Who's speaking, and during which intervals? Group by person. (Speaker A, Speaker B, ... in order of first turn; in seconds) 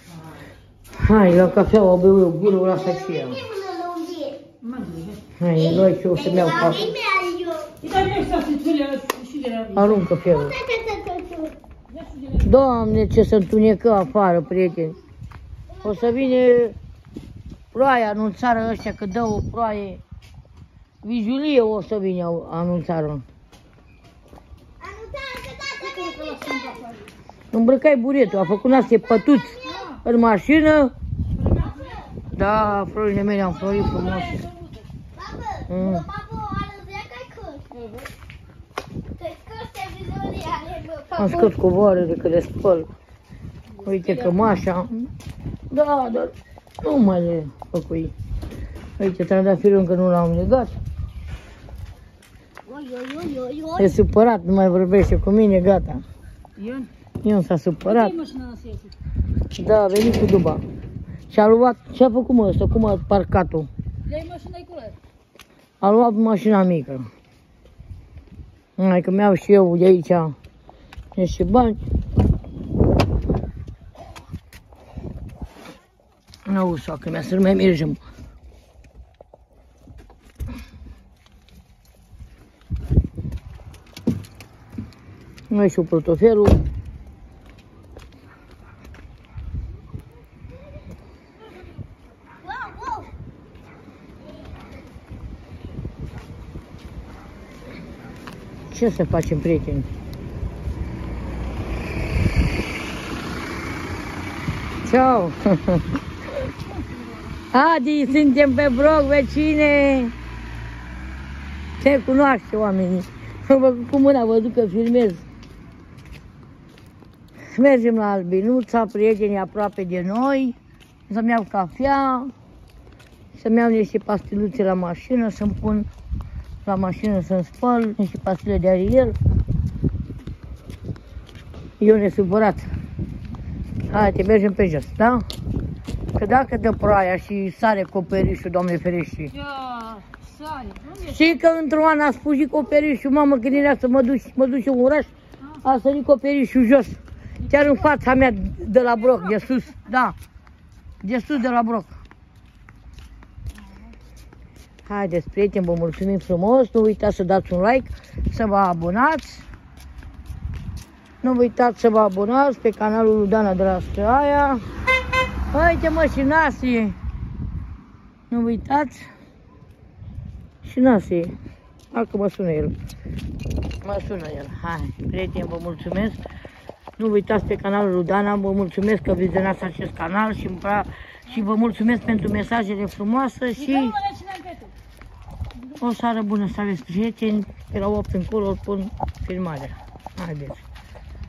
Speaker A: 1.0-3.4, 5.4-6.8, 9.7-10.6, 12.4-15.0, 15.8-16.7, 17.7-20.0, 21.0-23.2, 27.5-30.9, 32.3-34.4, 35.7-36.0, 41.2-42.9, 43.8-45.1, 45.7-48.1, 49.0-50.7, 53.8-56.0, 57.2-58.1, 59.6-60.6, 61.3-63.7, 65.8-67.0, 68.8-70.3, 71.2-71.8, 76.5-78.0, 85.5-86.6, 98.7-99.9, 104.8-105.8, 107.5-110.1, 111.8-115.2, 117.5-120.5, 121.1-122.3, 123.3-125.9, 126.6-129.2, 131.8-132.7, 133.9-135.2, 136.2-139.3, 141.0-150.1, 151.0-152.0, 154.8-159.4, 161.2-164.6, 165.5-167.0, 168.3-169.1, 170.6-171.3, 171.9-172.7, 173.8-176.2, 177.0-184.0, 185.7-190.6
Speaker B: 2.4-4.4, 5.5-7.7, 10.3-11.6, 15.7-16.3, 24.8-26.9, 28.4-29.9, 31.5-32.1, 35.1-37.7, 39.2-41.5, 52.6-54.0, 92.4-93.1
Speaker C: 4.6-5.2, 7.8-10.0, 11.9-12.5, 25.8-27.1, 29.6-30.0, 31.4-32.0, 33.6-34.8, 37.7-38.1, 43.8-44.5, 56.6-56.9, 57.9-58.9, 64.0-65.0, 139.3-141.4, 183.6-184.7